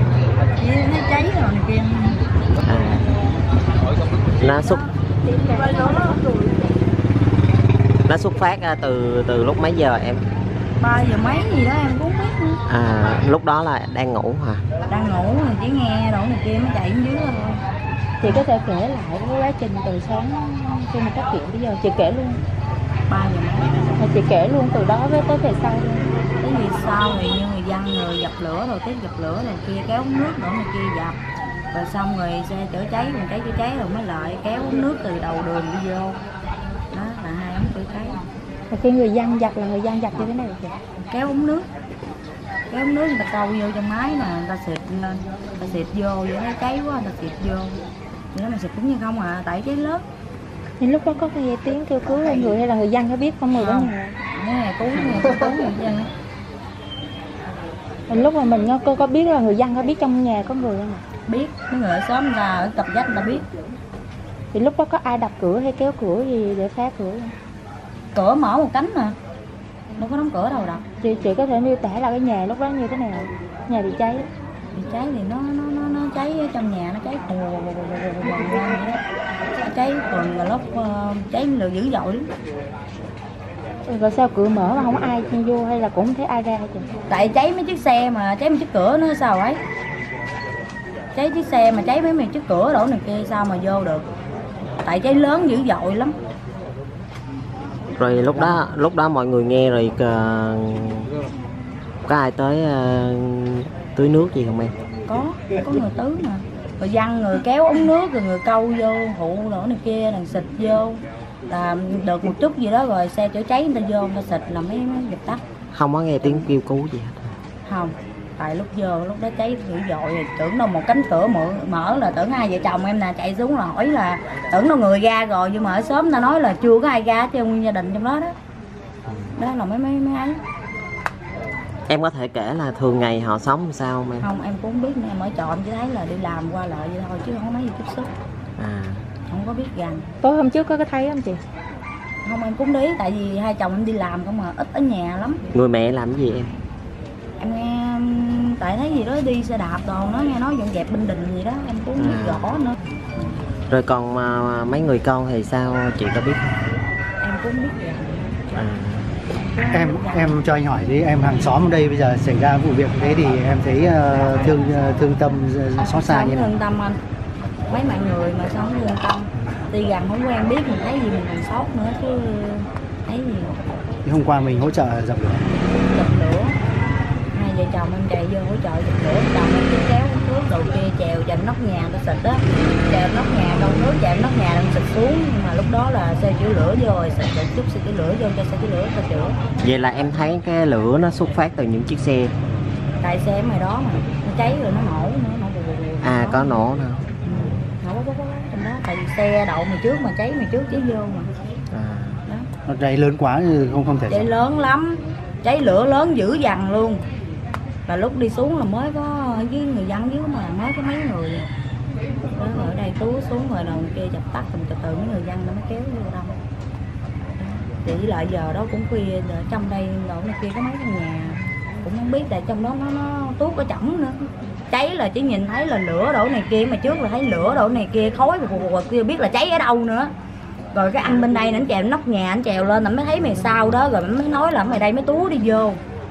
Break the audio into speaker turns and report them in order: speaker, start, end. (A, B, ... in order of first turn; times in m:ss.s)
0:00.6-0:02.2 A
0:02.6-0:03.1 B
0:04.4-0:04.8 B
0:04.5-0:04.8 A
0:05.3-0:06.5 C
0:05.4-0:06.2 A
0:08.1-0:10.2 B
0:10.8-0:12.6 A
0:12.7-0:14.6 B
0:14.9-0:17.6 A
0:18.2-0:22.4 C
0:23.1-0:23.9 A
0:24.0-0:26.1 C
0:26.4-0:31.2 A
0:31.7-0:36.2 A
0:36.9-0:38.2 A
0:38.7-0:40.8 C
0:41.0-0:41.6 A
0:42.7-0:47.8 A
0:48.3-0:50.0 A
0:50.8-0:54.2 C
0:53.6-0:56.1 A
0:55.1-0:55.5 C
0:58.1-1:01.0 C
1:01.3-1:03.4 A
1:04.5-1:07.3 C
1:08.1-1:09.1 A
1:10.0-1:10.8 A
1:11.0-1:14.3 C
1:14.7-1:19.0 A
1:19.6-1:22.3 A
1:23.9-1:26.9 C
1:27.1-1:29.6 A
1:31.1-1:34.0 A
1:34.8-1:36.1 A
1:38.0-1:41.1 B
1:38.2-1:38.6 A
1:42.0-1:44.7 B
1:45.1-1:55.4 A
1:55.7-1:57.3 B
1:56.2-1:56.5 A
1:57.6-2:08.3 A
2:09.1-2:09.4 B
2:09.4-2:10.4 A
2:11.9-2:14.3 B
2:14.2-2:18.1 A
2:18.6-2:19.1 B
2:19.3-2:20.0 A
2:20.2-2:21.4 C
2:22.2-2:25.4 A
2:25.5-2:26.5 B
2:27.4-2:32.8 A
2:32.0-2:32.6 B
2:33.7-2:36.7 B
2:37.2-2:38.5 A
2:38.5-2:39.2 B
2:39.3-2:40.3 A
2:39.7-2:46.5 D
2:45.8-2:47.0 A
2:47.7-2:53.6 A
2:54.0-2:55.4 D
2:55.7-2:56.6 A
2:57.3-3:09.4 A
3:09.6-3:12.3 B
3:13.0-3:16.6 A
3:16.0-3:17.1 B
3:17.2-3:21.3 A
3:21.7-3:22.2 B
3:22.6-3:24.3 D
3:24.1-3:27.0 A
3:27.9-3:31.5 A
3:32.4-3:36.4 A
3:37.4-3:44.2 A
3:44.7-3:50.1 A
3:50.7-3:55.8 A